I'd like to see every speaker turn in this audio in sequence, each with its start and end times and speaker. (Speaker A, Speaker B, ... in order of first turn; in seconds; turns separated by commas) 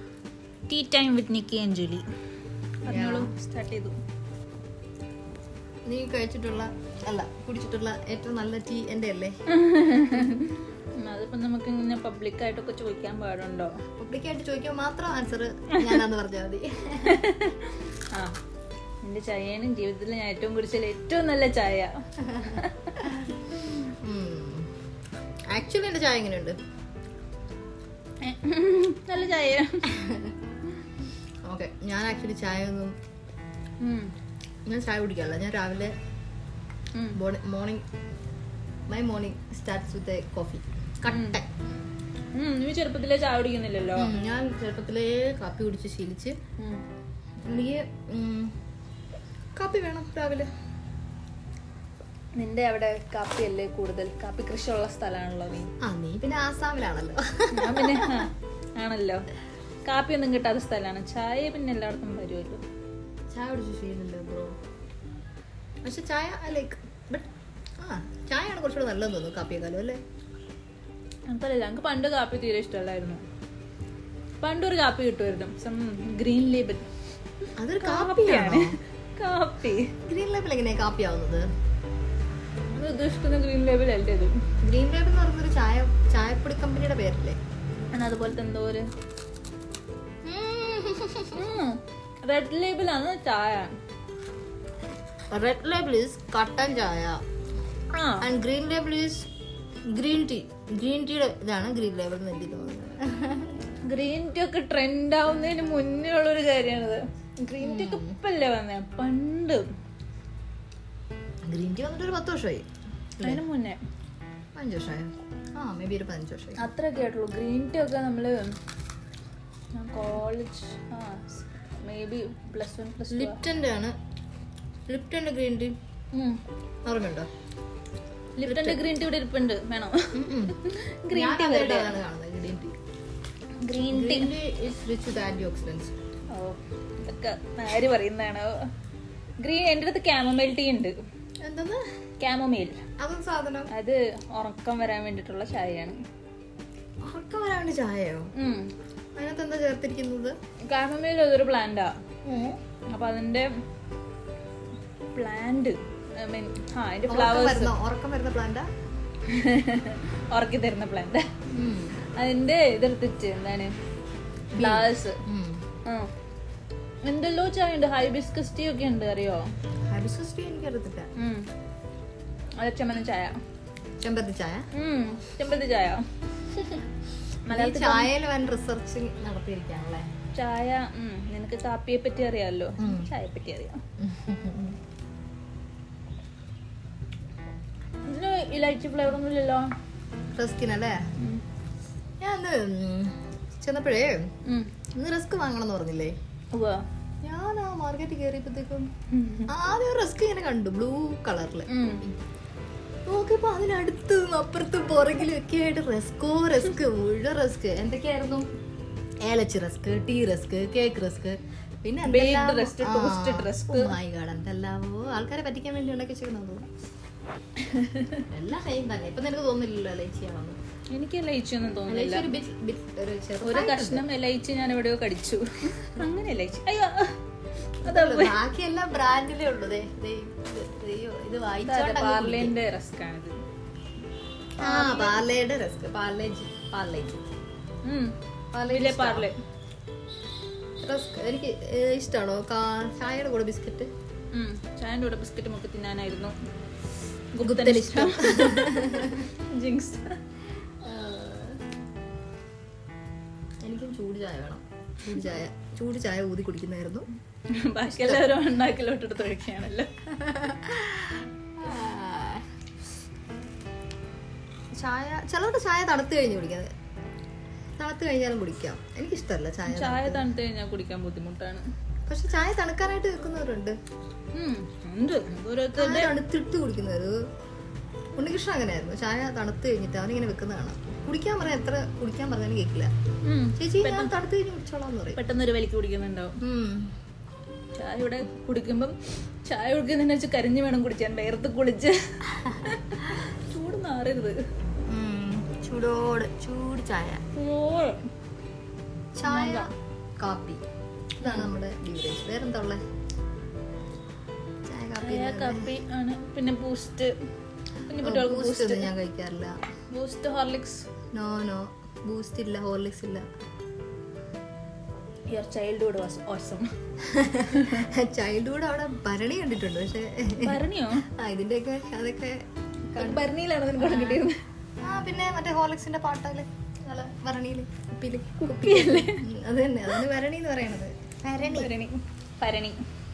Speaker A: 0.7-2.0, Speaker A: 2.8-4.0, Speaker B: 2.9-3.3, Speaker B: 5.8-9.3, Speaker A: 9.5-13.8, Speaker B: 14.0-17.3, Speaker A: 17.0-18.4, Speaker A: 19.0-23.2, Speaker B: 22.2-22.6, Speaker B: 24.0-24.7, Speaker B: 25.5-26.6, Speaker A: 28.2-29.9, Speaker B: 29.9-30.3, Speaker B: 31.4-32.9, Speaker A: 33.8-34.1, Speaker B: 34.7-35.9, Speaker B: 37.1-37.8, Speaker B: 38.9-41.5, Speaker A: 41.1-41.4, Speaker A: 42.3-44.1, Speaker B: 44.0-46.4, Speaker B: 47.5-48.5, Speaker B: 49.5-50.5, Speaker A: 52.4-55.7, Speaker B: 55.8-58.3, Speaker A: 57.5-59.2, Speaker A: 59.8-62.6, Speaker B: 63.3-64.6, Speaker B: 65.8-67.3, Speaker B: 67.8-70.0, Speaker A: 71.3-73.2, Speaker A: 74.4-76.8, Speaker B: 77.6-78.8, Speaker A: 77.8-79.9, Speaker B: 80.0-81.5, Speaker A: 82.7-84.3, Speaker B: 84.6-87.4, Speaker A: 87.9-88.9, Speaker B: 90.2-91.5, Speaker A: 91.3-93.7, Speaker B: 95.3-97.2, Speaker A: 97.9-98.3, Speaker B: 98.2-99.3, Speaker B: 99.9-103.5, Speaker A: 103.9-109.7, Speaker B: 107.6-108.2, Speaker B: 111.4-112.6, Speaker A: 113.2-113.8, Speaker B: 114.5-116.7, Speaker A: 116.6-118.5, Speaker A: 119.7-123.4, Speaker B: 123.1-124.0, Speaker B: 124.9-125.7, Speaker A: 126.1-126.4, Speaker B: 126.8-127.3, Speaker A: 128.4-131.9, Speaker B: 128.4-128.8, Speaker B: 130.1-132.8, Speaker A: 133.6-134.3, Speaker B: 133.9-135.9, Speaker A: 136.3-138.7, Speaker A: 139.4-141.0, Speaker B: 141.4-141.8, Speaker A: 142.2-142.8, Speaker B: 143.0-143.7, Speaker A: 143.7-146.0, Speaker B: 147.0-148.3, Speaker A: 148.3-148.7, Speaker B: 149.2-150.3, Speaker A: 150.7-153.5, Speaker A: 155.1-157.7, Speaker B: 157.1-158.7, Speaker A: 159.3-161.3, Speaker B: 161.5-162.0, Speaker A: 162.1-163.7, Speaker B: 164.5-165.6, Speaker A: 164.6-165.2, Speaker A: 165.8-166.1, Speaker A: 167.0-169.4, Speaker B: 169.9-171.1, Speaker A: 171.2-171.5, Speaker A: 172.6-173.4, Speaker B: 174.0-174.7, Speaker A: 174.7-176.0, Speaker A: 177.4-178.1, Speaker B: 177.5-180.1, Speaker A: 180.3-183.8, Speaker B: 182.8-183.1, Speaker B: 184.0-184.8, Speaker A: 188.1-189.7, Speaker B: 190.3-191.0, Speaker A: 191.2-191.4, Speaker B: 192.2-194.3, Speaker A: 194.4-194.7, Speaker B: 194.9-196.1, Speaker A: 196.5-196.8, Speaker B: 197.2-198.9, Speaker A: 199.1-199.5, Speaker B: 199.5-202.1, Speaker A: 201.7-202.0, Speaker B: 203.1-208.4, Speaker B: 209.2-216.7, Speaker A: 212.0-213.9, Speaker A: 217.6-218.2, Speaker B: 218.3-220.6, Speaker A: 220.9-222.3, Speaker B: 221.9-224.1, Speaker A: 223.4-227.2, Speaker B: 227.8-232.6, Speaker A: 227.8-228.4, Speaker A: 231.7-233.4, Speaker A: 234.6-235.2, Speaker B: 234.6-237.2, Speaker A: 237.8-238.2, Speaker B: 238.5-239.3, Speaker A: 238.7-239.3, Speaker B: 240.8-243.9, Speaker A: 244.3-246.3, Speaker A: 247.3-250.2, Speaker B: 247.4-249.2, Speaker B: 250.8-251.6, Speaker B: 253.6-257.1, Speaker A: 257.5-260.0, Speaker B: 258.0-258.3, Speaker B: 260.2-262.4, Speaker B: 264.8-266.7, Speaker B: 267.8-270.2, Speaker A: 269.7-271.6, Speaker B: 272.1-273.8, Speaker A: 274.3-276.1, Speaker B: 275.7-277.2, Speaker B: 278.1-282.9, Speaker A: 283.2-284.2, Speaker B: 283.6-285.2, Speaker A: 285.1-286.4, Speaker B: 286.4-286.9, Speaker A: 287.8-294.4, Speaker B: 294.9-297.2, Speaker A: 297.3-298.1, Speaker B: 299.1-300.6, Speaker A: 299.3-299.7, Speaker A: 301.2-301.5, Speaker B: 301.2-302.8, Speaker B: 304.7-305.7, Speaker A: 305.0-307.1, Speaker A: 307.9-308.9, Speaker B: 308.0-309.6, Speaker A: 309.9-310.9, Speaker B: 311.1-313.2, Speaker A: 315.3-316.6, Speaker B: 317.0-320.6, Speaker A: 317.5-317.9, Speaker A: 320.4-321.1, Speaker B: 321.1-322.4, Speaker B: 322.9-324.2, Speaker A: 322.9-324.4, Speaker B: 324.8-331.7, Speaker A: 328.4-329.2, Speaker A: 331.4-332.8